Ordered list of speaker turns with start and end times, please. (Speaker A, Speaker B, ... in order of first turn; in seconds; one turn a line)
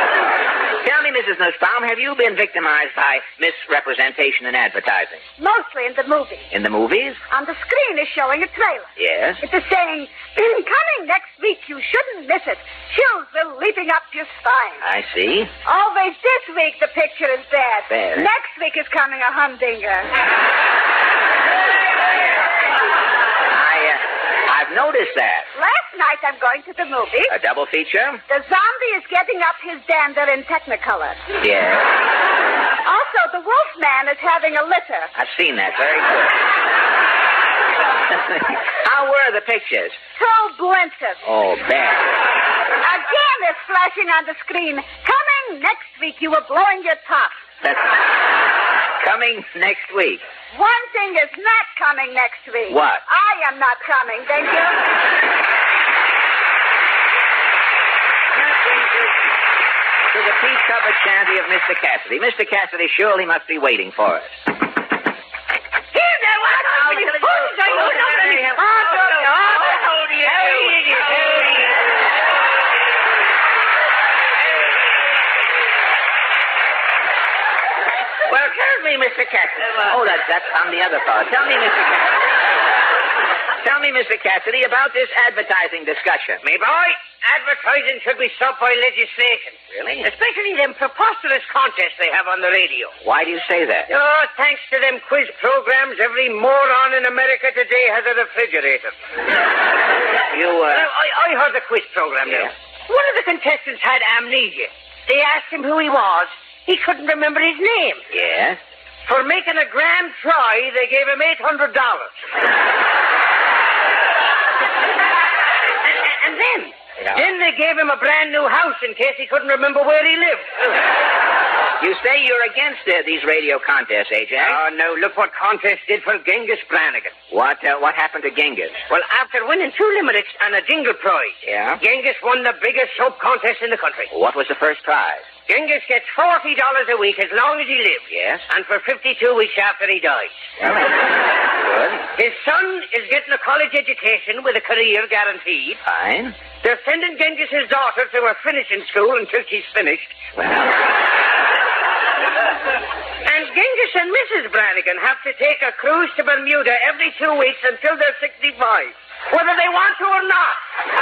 Speaker A: 0.8-5.2
Speaker B: 5.4-6.5
Speaker A: 6.5-7.2
Speaker B: 7.3-14.8
Speaker A: 9.0-9.4
Speaker A: 14.8-15.5
Speaker B: 15.6-20.1
Speaker A: 17.9-18.3
Speaker A: 23.5-25.5
Speaker B: 25.5-27.4
Speaker A: 27.3-28.2
Speaker B: 28.3-31.2
Speaker A: 31.4-32.0
Speaker B: 32.8-35.1
Speaker A: 35.1-36.5
Speaker A: 38.1-40.0
Speaker B: 40.1-41.2
Speaker A: 41.2-42.2
Speaker B: 42.8-47.4
Speaker A: 47.6-48.1
Speaker A: 49.0-50.2
Speaker B: 50.5-54.9
Speaker A: 52.7-53.0
Speaker A: 58.3-59.2
Speaker A: 60.1-64.4
Speaker C: 66.0-71.8
Speaker A: 66.4-71.4
Speaker A: 78.3-82.4
Speaker A: 83.6-86.4
Speaker C: 86.4-93.0
Speaker A: 89.7-90.0
Speaker A: 93.0-93.9
Speaker C: 93.9-98.9
Speaker A: 100.3-100.9
Speaker C: 100.6-108.0
Speaker A: 108.1-108.6
Speaker C: 109.0-112.1
Speaker C: 115.9-120.6
Speaker A: 121.8-124.6
Speaker C: 124.4-127.1
Speaker A: 127.3-128.8
Speaker C: 128.9-134.1
Speaker A: 131.4-131.8
Speaker A: 134.1-135.3
Speaker C: 135.5-140.3
Speaker A: 138.1-138.4
Speaker A: 140.6-142.1
Speaker C: 142.1-145.8
Speaker A: 145.8-146.4
Speaker C: 146.5-150.2
Speaker A: 150.4-150.8
Speaker C: 153.2-160.6